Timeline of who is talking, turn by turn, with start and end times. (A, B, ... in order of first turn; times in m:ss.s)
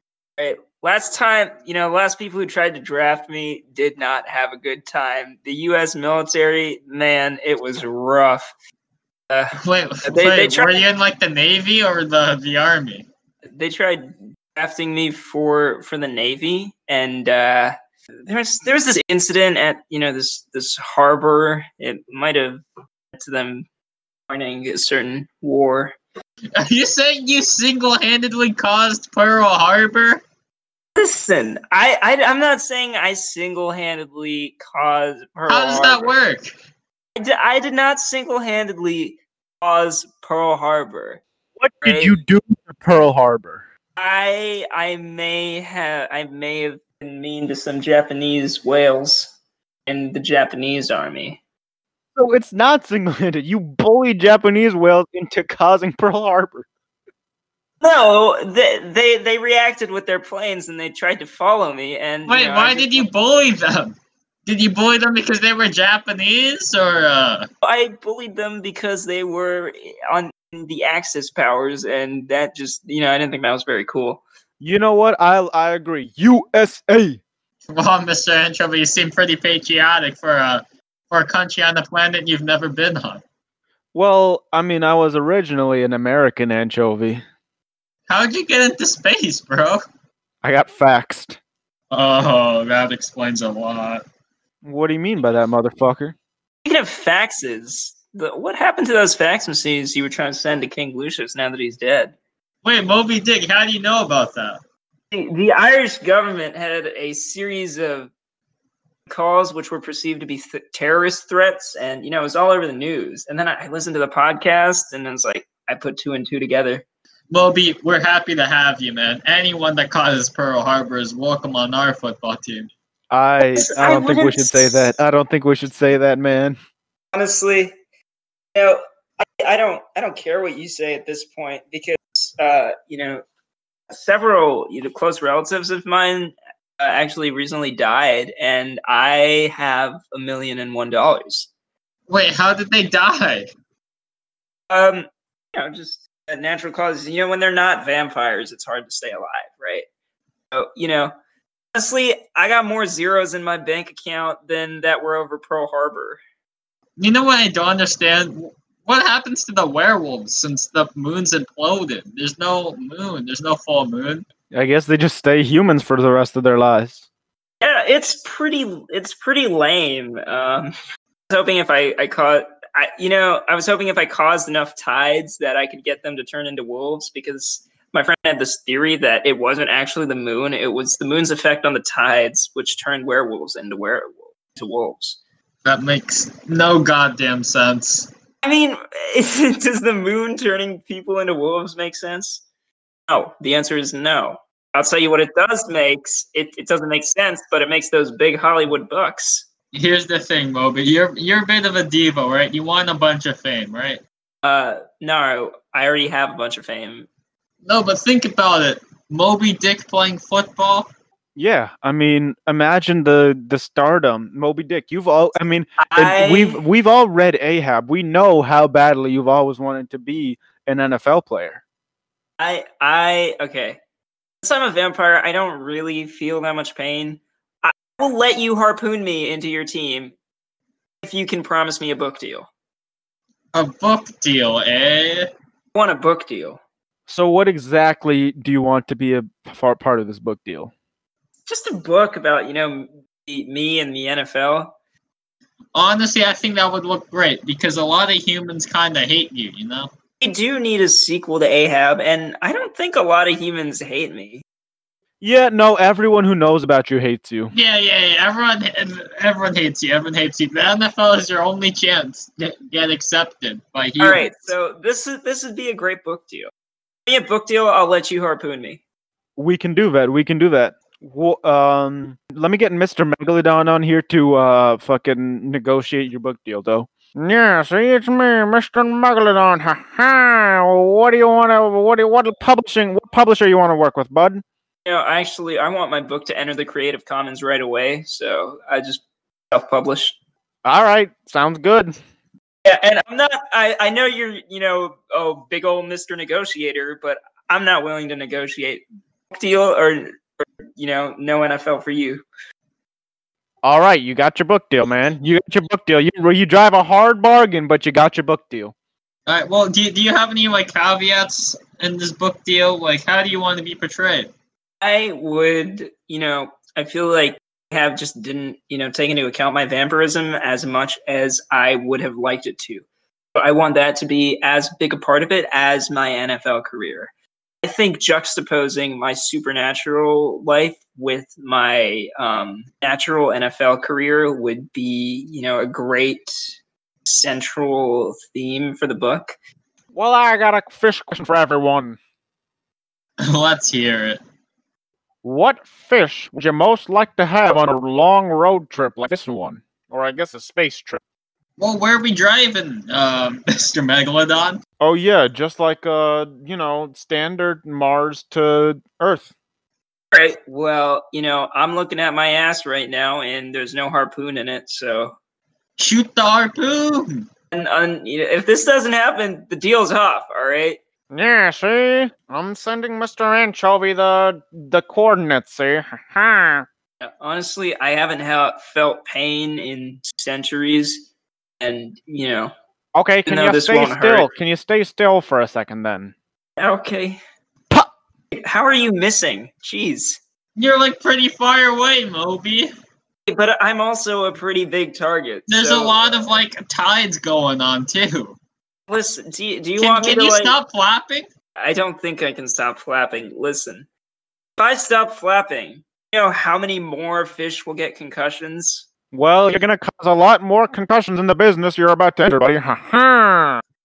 0:00.4-0:08.5 A
0:09.3-0:10.8 A
0:09.6-0:13.0 B
0:13.5-0:23.6 A
0:24.3-0:25.9 A
0:26.6-0:30.2 B
0:31.0-0:36.1 A
0:35.5-0:36.5 B
0:37.2-0:41.2 A
0:41.6-0:43.6 C
0:41.8-0:42.2 A
0:44.0-0:49.3 A
0:49.8-0:51.4 A
0:52.2-0:56.6 C
0:57.8-1:03.1 A
1:02.3-1:03.9 B
1:04.4-1:07.5 B
1:07.6-1:14.2 A
1:14.6-1:17.2 C
1:17.7-1:23.2 B
1:23.9-1:27.2 C
1:28.1-1:29.8 B
1:30.4-1:31.4 C
1:31.9-1:34.0 B
1:34.6-1:36.1 C
1:36.6-1:42.1 A
1:42.6-1:44.6 B
1:45.1-1:48.1 A
1:49.1-1:56.8 A
1:57.3-2:02.7 B
2:03.1-2:06.6 C
2:03.5-2:04.9 A
2:07.1-2:07.7 A
2:08.5-2:13.2 A
2:13.9-2:21.5 A
2:22.1-2:23.5 B
2:24.7-2:29.8 A
2:30.5-2:31.1 A
2:31.7-2:36.2 A
2:37.0-2:44.2 B
2:44.5-2:47.0 C
2:47.6-2:50.7 A
2:51.3-3:05.2 A
3:05.6-3:08.1 B
3:08.4-3:12.4 A
3:13.1-3:19.4 A
3:19.7-3:24.0 B
3:24.4-3:27.1 A
3:27.6-3:30.9 B
3:31.4-3:41.6 C
3:35.8-3:36.6 A
3:42.4-3:43.8 A
3:44.4-3:50.1 A
3:51.0-3:52.5 A
3:53.5-3:55.3 B
3:55.7-3:56.6 A
3:57.1-4:00.7 C
4:01.5-4:04.7 A
4:05.7-4:09.9 B
4:10.2-4:14.4 A
4:15.2-4:17.5 C
4:17.5-4:24.5 B
4:24.0-4:26.5 A
4:27.1-4:28.8 A
4:29.4-4:44.4 C
4:44.8-4:50.2 A
4:50.6-4:52.0 C
4:52.6-5:02.2 A
5:03.6-5:08.7 C
5:09.3-5:14.3 B
5:14.8-5:27.1 A
5:27.6-5:36.5 A
5:37.0-5:39.3 A
5:39.9-5:42.0 C
5:43.2-5:44.2 B
5:45.2-5:51.0 C
5:51.6-5:54.6 B
5:54.8-5:59.3 C
6:00.1-6:05.2 A
6:05.8-6:07.2 B
6:07.5-6:10.8 A
6:11.1-6:16.6 C
6:17.0-6:21.1 A
6:21.6-6:22.5 A
6:22.9-6:26.1 C
6:23.2-6:24.3 A
6:26.6-6:27.2 A
6:28.3-6:30.2 A
6:30.6-6:32.7 B
6:33.3-6:36.4 A
6:35.5-6:38.4 B
6:38.9-6:40.6 A
6:39.8-6:41.3 B
6:41.6-6:43.9 A
6:44.6-6:48.8 A
6:49.1-6:53.6 C